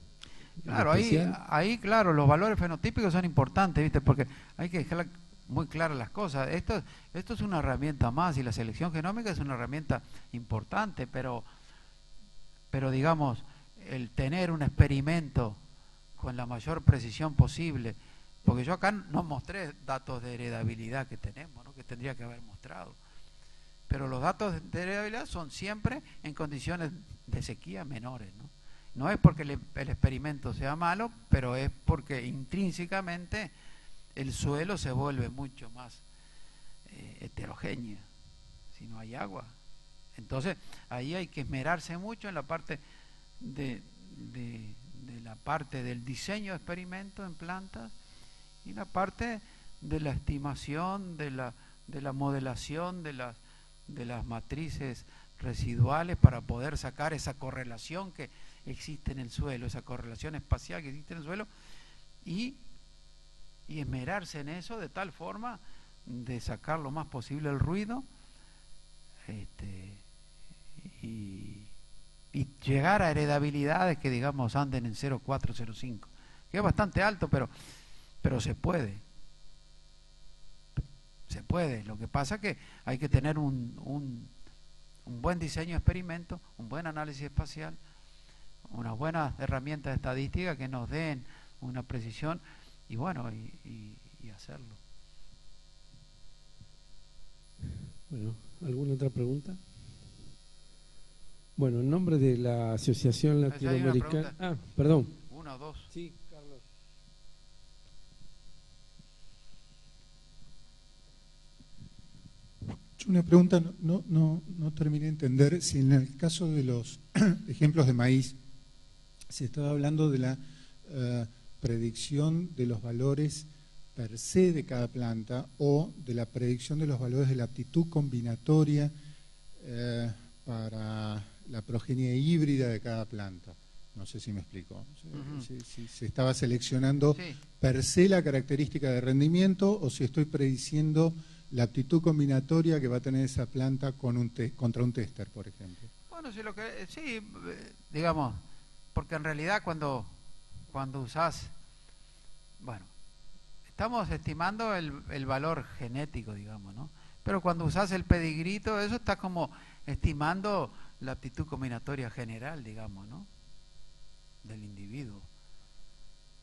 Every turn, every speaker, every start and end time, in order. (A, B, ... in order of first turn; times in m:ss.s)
0:00.6-0:01.4 A
0:00.6-0:11.4 B
0:12.7-0:15.6 B
0:16.2-0:23.0 B
0:23.9-0:33.5 B
0:34.1-0:36.0 B
0:36.9-0:38.1 B
0:38.7-0:39.6 B
0:40.2-0:42.8 B
0:43.4-0:48.0 B
0:48.6-1:01.5 B
1:02.2-1:02.6 B
1:03.7-1:08.0 B
1:09.3-1:10.0 B
1:10.8-1:11.7 B
1:12.3-1:17.5 B
1:18.2-1:19.0 B
1:21.3-1:24.3 B
1:25.0-1:27.8 B
1:28.7-1:34.8 B
1:38.1-1:39.6 A
1:41.6-1:45.2 A
1:43.5-1:44.4 B
1:45.3-1:45.9 B
1:45.9-1:46.6 A
1:53.0-1:58.4 C
1:59.3-2:08.9 C
2:09.6-2:25.9 C
2:15.1-2:15.5 B
2:26.1-2:28.4 B
2:29.0-2:30.1 B
2:30.7-2:31.5 B
2:32.6-2:32.9 B
2:33.7-2:43.3 B
2:44.4-2:45.3 B